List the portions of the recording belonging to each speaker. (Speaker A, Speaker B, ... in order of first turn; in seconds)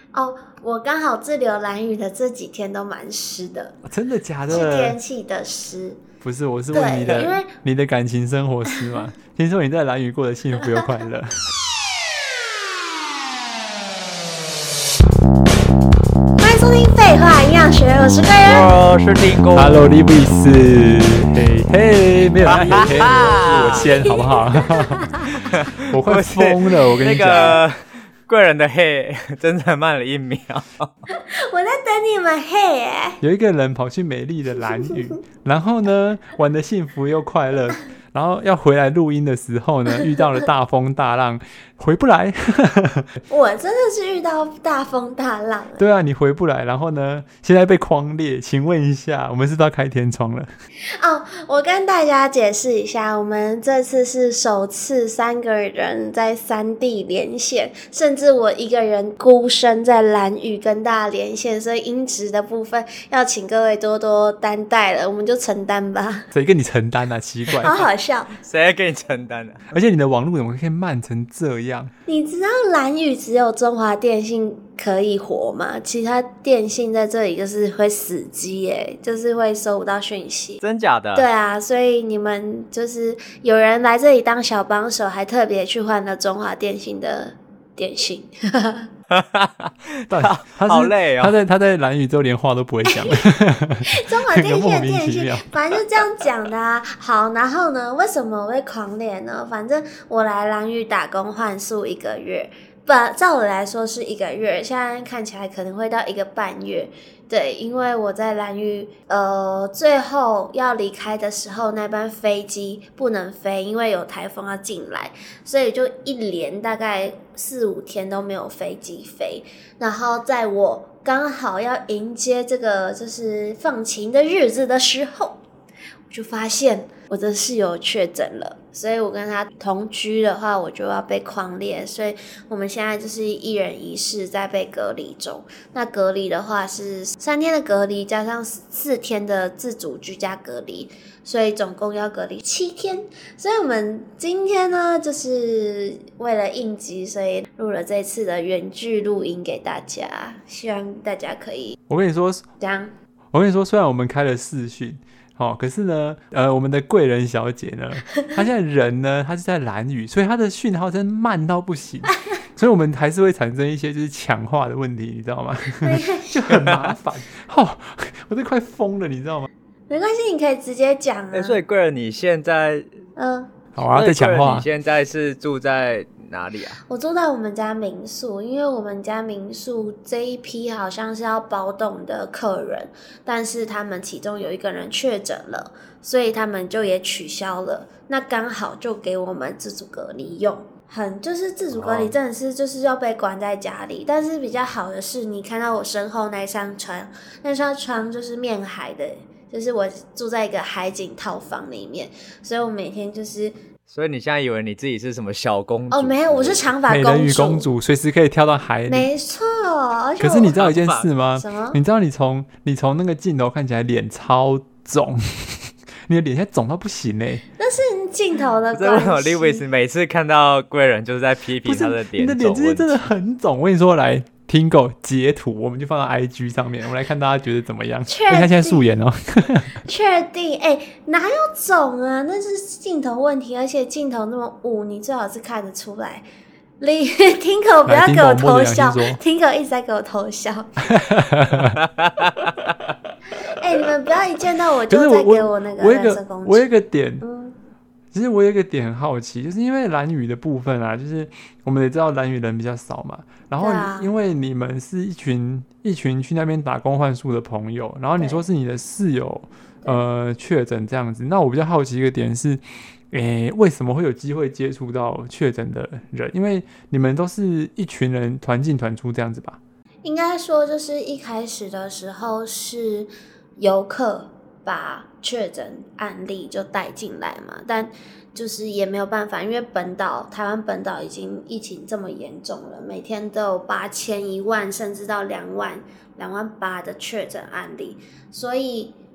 Speaker A: 0.1-3.8, 4.5-6.0, 6.7-7.5, 16.4-18.7, 22.8-25.3, 31.1-33.2, 43.3-45.8, 51.0-66.3, 67.6-68.4, 72.1-80.6, 81.1-88.9, 93.9-125.4, 126.1-151.8, 152.6-152.9, 165.8-166.5, 169.9-171.6, 173.2-173.5, 176.9-203.6, 205.9-207.7, 208.9-210.7, 211.3-211.8, 217.6-219.6, 228.1-228.9, 229.8-236.2, 236.8-241.0, 243.3-246.7, 247.2-247.6, 253.6-254.1, 258.2-258.4, 270.0-288.9
Speaker B: 3.8-5.0, 6.2-11.4, 19.5-25.1, 25.9-27.5, 33.2-43.1, 45.8-50.5, 66.3-67.9, 69.7-71.9, 90.1-95.5, 151.9-152.4, 153.3-169.5, 173.7-174.7, 206.9-209.1, 210.2-217.4, 221.6-229.8, 237.8-239.2, 240.8-241.8, 244.9-247.2, 248.1-269.6
Speaker C: 18.4-19.8, 22.4-23.9, 25.4-31.0, 68.4-69.7, 80.6-81.3, 89.1-91.3, 166.5-166.9, 171.3-172.9, 173.9-176.8, 191.7-192.2, 203.9-206.7, 210.6-211.1, 218.7-223.0, 241.8-242.9